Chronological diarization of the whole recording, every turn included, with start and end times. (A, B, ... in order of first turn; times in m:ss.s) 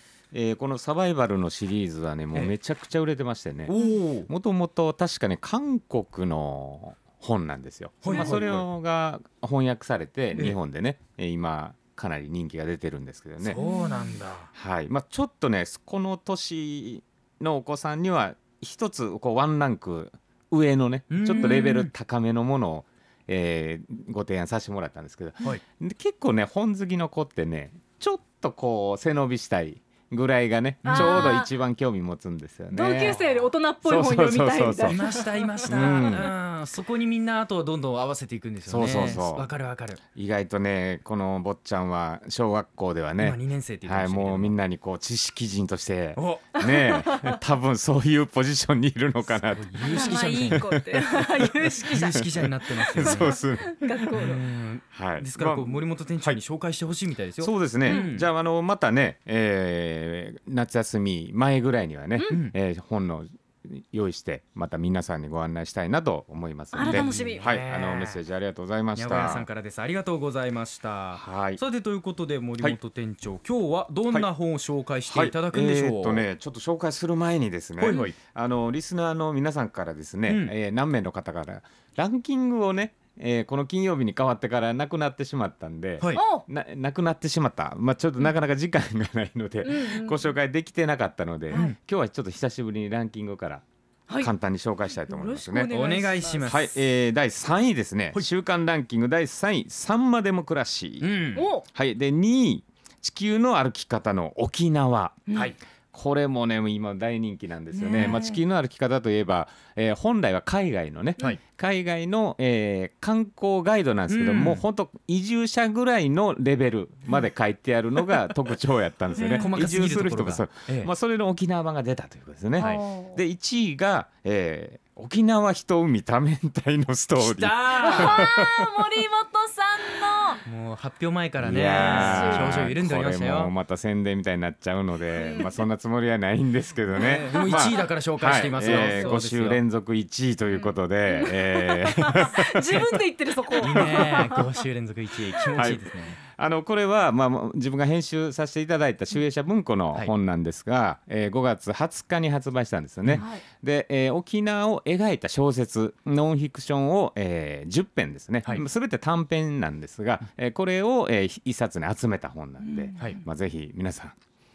0:00.3-0:13.6 A
0:03.7-0:04.3 B
0:08.0-0:08.7 B
0:13.4-0:14.5 B
0:13.6-0:14.1 C
0:14.5-0:33.2 A
0:21.1-0:21.9 B
0:30.8-0:31.4 B
0:30.9-0:31.5 C
0:32.7-0:36.1 C
0:33.8-0:35.0 A
0:34.8-0:40.0 B
0:35.6-0:36.3 A
0:38.7-0:39.5 A
0:40.2-0:52.3 A
0:43.2-0:44.6 B
0:46.2-0:46.6 B
0:46.6-0:47.4 C
0:49.3-0:50.7 B
0:49.8-0:52.3 C
0:51.8-0:53.3 B
0:52.9-0:54.4 A
0:53.0-0:54.4 C
0:54.1-0:58.3 B
0:54.9-0:56.4 A
0:57.4-1:09.5 A
0:57.9-0:58.1 C
1:02.3-1:02.6 B
1:06.7-1:07.5 C
1:06.8-1:08.2 B
1:09.0-1:16.2 B
1:11.2-1:11.6 A
1:15.1-1:33.6 A
1:17.8-1:18.2 B
1:20.3-1:20.5 B
1:26.1-1:26.4 C
1:29.6-1:30.3 C
1:31.5-1:31.8 B
1:34.2-1:35.7 A
1:35.0-1:36.5 C
1:35.7-1:36.8 B
1:36.5-1:41.2 A
1:41.0-1:41.5 B
1:41.4-1:41.7 C
1:41.7-2:08.8 A
1:47.7-1:48.4 C
1:54.1-1:54.6 B
1:59.1-1:59.5 C
1:59.3-2:00.9 B
2:02.6-2:02.8 B
2:02.6-2:03.2 C
2:07.2-2:08.3 B
2:07.8-2:10.4 C
2:10.4-2:13.5 B
2:11.4-2:23.0 A
2:11.8-2:12.7 C
2:15.1-2:15.6 C
2:16.9-2:19.6 B
2:17.0-2:17.7 C
2:18.6-2:19.2 C
2:20.5-2:24.6 C
2:23.6-2:26.2 B
2:23.6-2:24.0 A
2:25.6-2:44.2 A
2:33.2-2:33.4 C
2:42.6-2:43.2 C